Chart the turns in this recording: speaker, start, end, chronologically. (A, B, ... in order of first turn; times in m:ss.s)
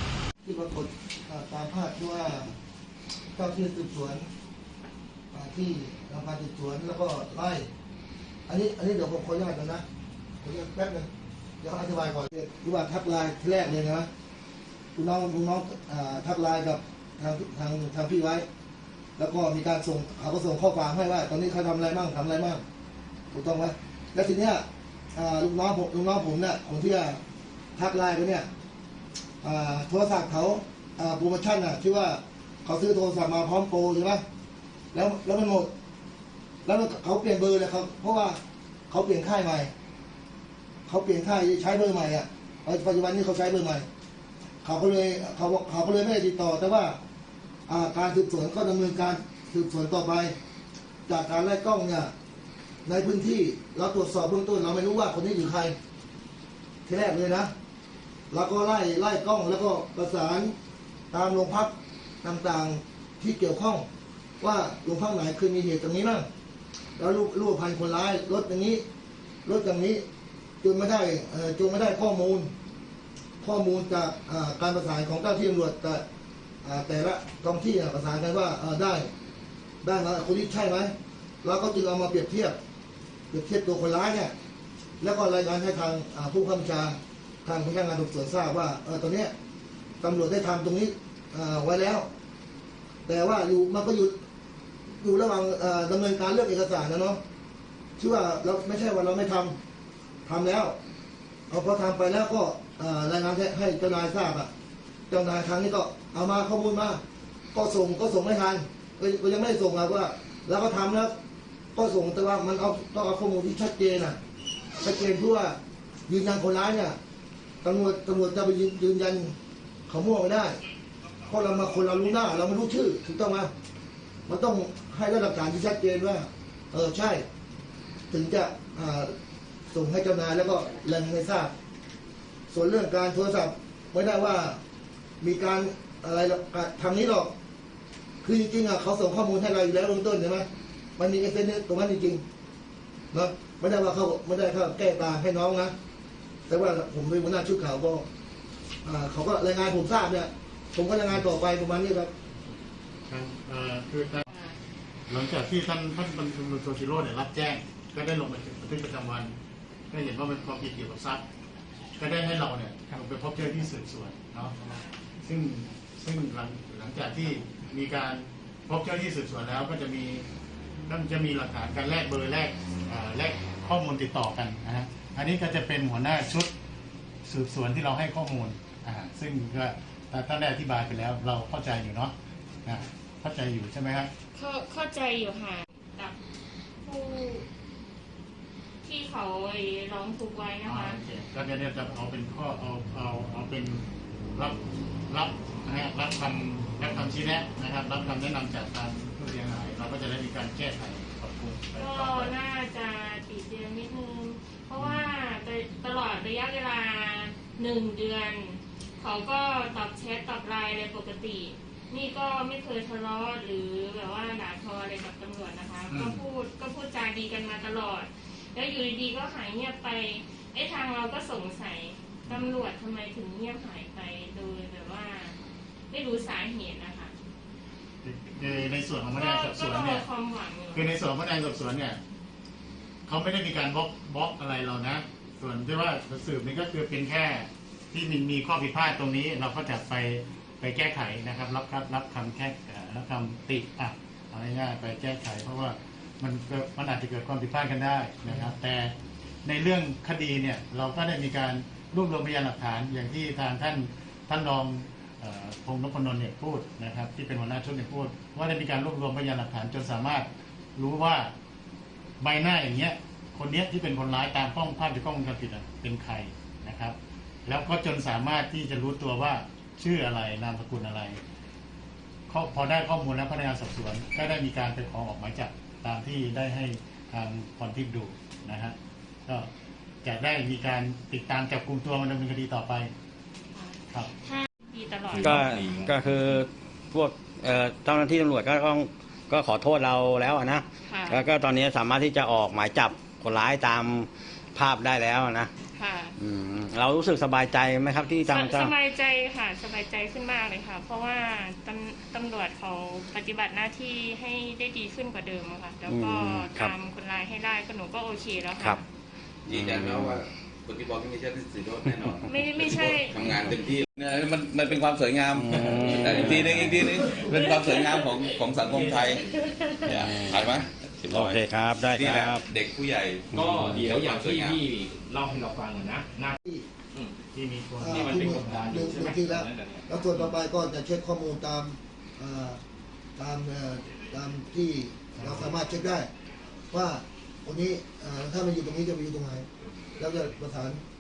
0:00.4-0:02.6 A
0:03.4-0:04.3 A
0:05.3-0:07.7 A
0:08.5-0:09.8 A
0:10.4-0:11.1 A
0:11.6-0:14.1 A
0:15.0-0:18.5 A
0:19.2-0:22.6 A
0:23.3-0:27.2 A
0:27.8-0:28.5 A
0:29.4-0:34.2 A
0:34.9-0:35.7 A
0:36.6-0:38.4 A
0:38.9-0:39.7 A
0:40.9-0:43.9 A
0:44.6-0:47.0 A
0:47.7-0:50.4 A
0:51.1-0:52.1 A
0:52.9-0:55.8 A
0:56.9-0:57.5 A
0:58.3-1:00.5 A
1:01.1-1:03.9 A
1:04.4-1:06.3 A
1:07.0-1:08.8 A
1:09.4-1:10.0 A
1:10.6-1:12.5 A
1:13.4-1:16.0 A
1:16.6-1:19.1 A
1:19.8-1:22.6 A
1:23.3-1:24.3 A
1:25.0-1:29.3 A
1:30.0-1:32.1 A
1:33.1-1:34.2 A
1:35.0-1:37.2 A
1:38.0-1:39.6 A
1:40.3-1:40.8 A
1:41.5-1:44.5 A
1:45.1-1:47.0 A
1:47.5-1:51.1 A
1:51.8-1:54.2 A
1:54.8-1:57.0 A
1:57.6-1:59.3 A
1:59.9-2:00.6 A
2:01.3-2:03.5 A
2:04.3-2:07.2 A
2:08.1-2:09.1 A
2:09.7-2:11.5 A
2:12.5-2:14.6 A
2:15.2-2:17.3 A
2:18.2-2:22.2 A
2:23.1-2:25.7 A
2:26.5-2:28.0 A
2:28.8-2:32.1 A
2:33.1-2:34.3 B
2:34.3-2:34.6 C
2:35.1-2:39.3 B
2:39.9-2:41.2 B
2:42.0-2:44.6 B
2:44.6-2:45.0 C
2:45.2-2:50.2 B
2:50.9-2:56.5 B
2:57.2-3:02.1 B
3:02.6-3:04.1 B
3:04.3-3:06.2 C
3:06.8-3:07.5 C
3:08.8-3:11.0 C
3:10.7-3:13.8 B
3:14.4-3:22.3 B
3:21.8-3:45.4 C
3:35.9-3:36.2 B
3:42.3-3:42.5 B
3:45.9-3:47.1 C
3:48.0-3:50.1 B
3:49.1-3:50.9 C
3:50.7-3:52.0 B
3:53.1-4:08.9 B
4:09.4-4:21.3 B
4:22.2-4:31.2 B
4:32.3-4:38.8 B
4:40.0-4:42.9 B
4:43.5-4:45.4 C
4:45.1-4:46.4 D
4:45.2-4:55.5 E
4:50.8-4:51.2 C
4:55.7-4:56.2 C
4:56.2-4:58.7 E
4:58.3-5:08.9 C
5:05.9-5:06.7 E
5:09.5-5:19.3 F
5:09.5-5:10.2 E
5:12.2-5:13.3 C
5:15.4-5:16.8 E
5:15.5-5:19.2 D
5:19.8-5:20.5 E
5:19.8-5:24.6 F
5:21.1-5:22.4 E
5:23.3-5:26.4 D
5:27.3-5:28.8 B
5:27.8-5:32.6 A
5:27.8-5:30.4 D
5:33.2-5:36.1 A
5:35.2-5:35.5 B
5:36.7-5:40.8 A